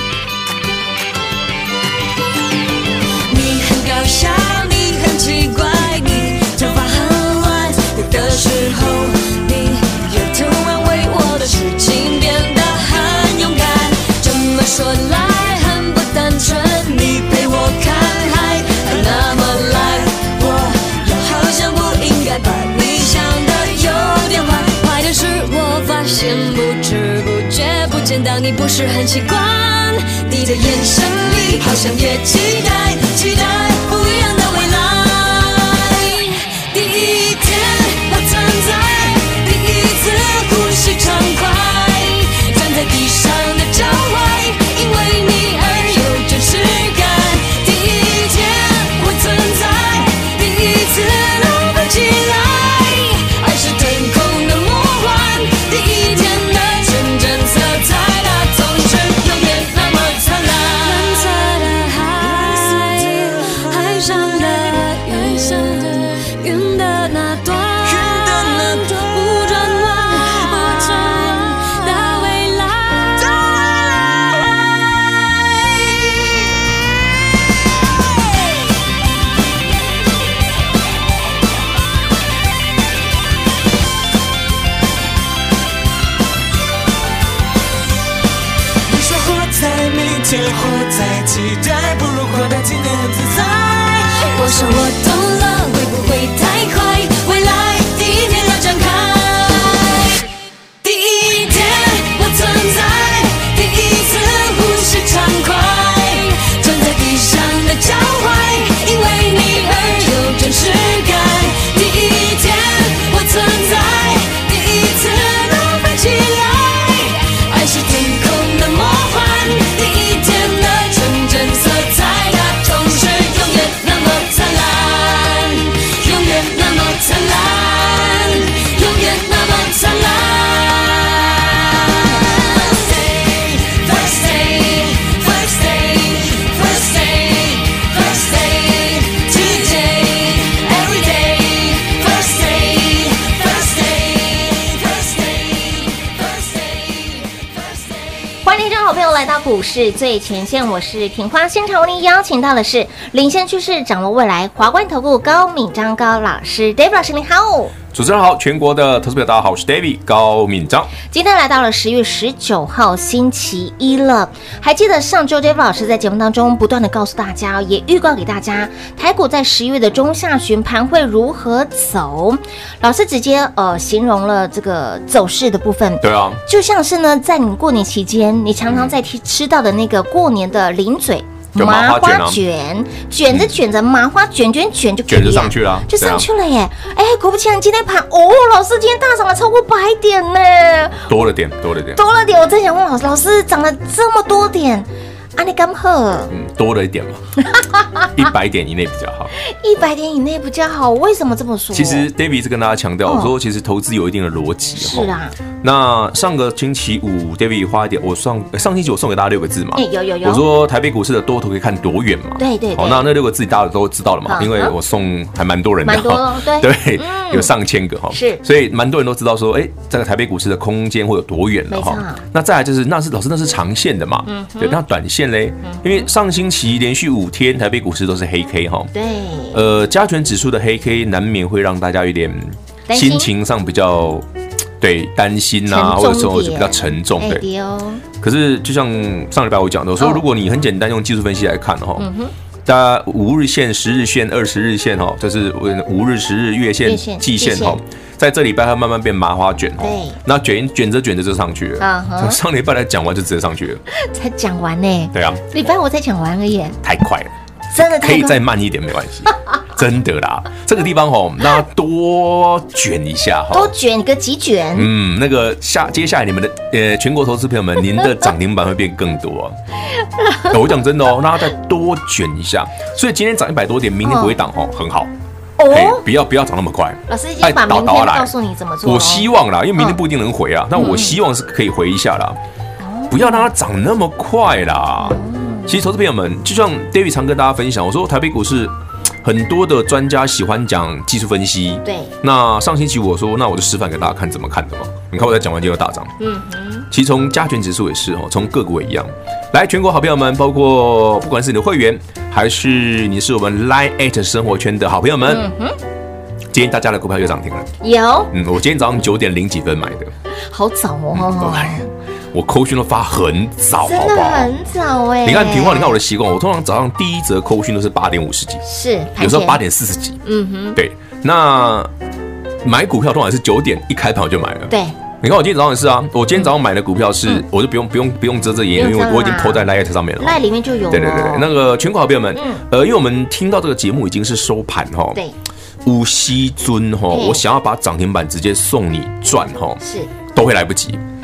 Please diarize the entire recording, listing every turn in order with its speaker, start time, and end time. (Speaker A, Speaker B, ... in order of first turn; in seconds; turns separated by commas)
Speaker A: 3.3-73.4, Speaker B: 67.9-68.9, Speaker B: 88.9-94.2, Speaker A: 94.0-100.2, Speaker A: 100.8-147.7, Speaker C: 148.4-157.7, Speaker D: 157.9-160.9, Speaker C: 161.1-191.1, Speaker D: 176.0-176.4, Speaker D: 178.7-178.9, Speaker D: 181.6-182.4, Speaker D: 185.1-186.3, Speaker D: 191.1-192.0, Speaker C: 192.0-196.3, Speaker D: 196.3-197.2, Speaker D: 198.1-199.3, Speaker C: 199.4-202.1, Speaker D: 201.7-228.9, Speaker C: 203.1-203.3, Speaker C: 204.8-205.3, Speaker C: 209.7-210.4, Speaker C: 212.4-213.1, Speaker C: 214.2-214.7, Speaker C: 215.8-217.5, Speaker C: 218.1-218.4, Speaker C: 221.7-222.2, Speaker C: 224.2-224.8, Speaker C: 225.6-226.1, Speaker C: 228.9-229.6, Speaker D: 229.5-234.2, Speaker C: 232.9-233.3, Speaker D: 234.8-237.4, Speaker C: 235.7-238.0, Speaker D: 238.2-242.1, Speaker C: 242.0-242.3, Speaker D: 242.7-253.8, Speaker C: 246.8-247.8, Speaker C: 249.8-250.2, Speaker C: 251.8-252.4, Speaker C: 253.9-256.8, Speaker D: 255.1-255.4, Speaker D: 256.8-263.7, Speaker C: 257.7-258.4, Speaker C: 263.5-264.9, Speaker D: 264.8-269.6, Speaker C: 270.2-270.5, Speaker D: 270.5-275.1, Speaker C: 274.0-274.4, Speaker C: 275.6-276.0, Speaker D: 275.7-282.4, Speaker C: 277.1-280.0, Speaker C: 280.8-281.1, Speaker C: 282.8-283.5, Speaker D: 283.1-296.1, Speaker C: 285.0-285.8, Speaker C: 291.9-292.1, Speaker C: 296.2-296.9, Speaker D: 296.9-305.4, Speaker C: 305.2-305.8, Speaker D: 306.5-307.7, Speaker C: 307.8-308.3, Speaker D: 308.3-310.1, Speaker C: 310.5-311.9, Speaker D: 311.1-314.5, Speaker C: 313.8-316.0, Speaker D: 315.2-318.6, Speaker C: 318.6-319.6, Speaker D: 319.2-320.2, Speaker C: 320.2-320.8, Speaker D: 320.8-321.9, Speaker D: 322.6-335.2, Speaker C: 324.7-325.0, Speaker C: 328.8-329.7, Speaker C: 330.2-331.5, Speaker C: 332.4-332.6, Speaker D: 335.8-339.8, Speaker C: 337.1-337.4, Speaker C: 339.8-340.1, Speaker D: 340.3-341.0